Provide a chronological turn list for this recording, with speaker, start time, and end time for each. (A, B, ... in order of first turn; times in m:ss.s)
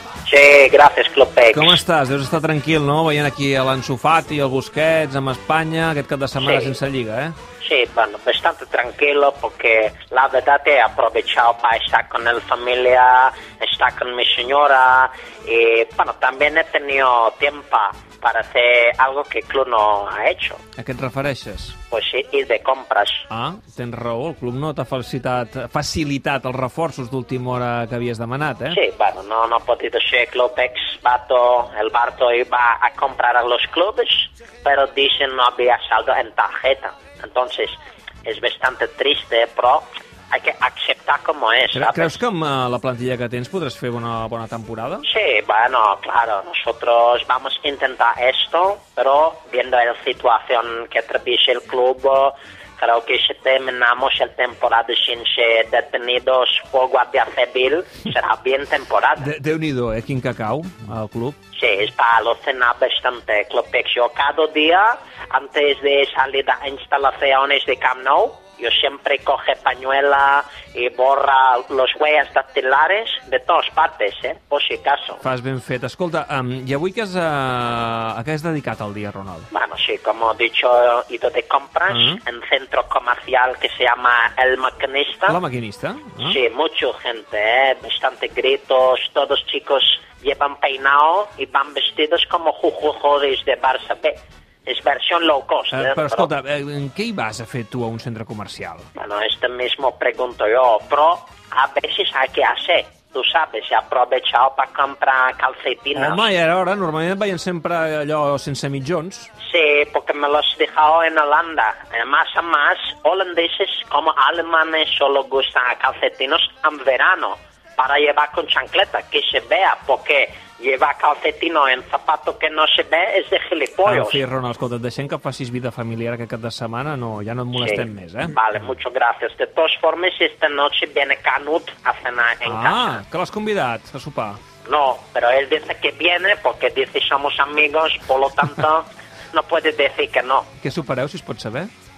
0:00.3-0:01.8 A
0:01.5-0:07.4 B
0:06.4-0:06.8 A
0:07.6-0:20.6 A
0:20.8-0:21.8 B
0:21.9-0:23.3 A
0:23.3-0:28.8 B
0:28.7-0:42.2 A
0:41.7-0:45.1 B
0:45.0-0:59.3 A
0:59.2-1:01.4 B
1:01.5-1:15.2 A
1:15.2-1:19.5 B
1:19.5-1:25.4 A
1:21.9-1:22.2 B
1:25.3-1:26.4 B
1:26.2-1:36.3 A
1:35.7-1:38.9 B
1:39.0-1:46.3 A
1:45.9-1:49.3 B
1:49.4-2:04.2 A
2:03.8-2:08.4 B
2:07.6-2:13.0 A
2:12.4-2:14.4 B
2:14.6-2:20.5 A
2:20.6-2:21.7 B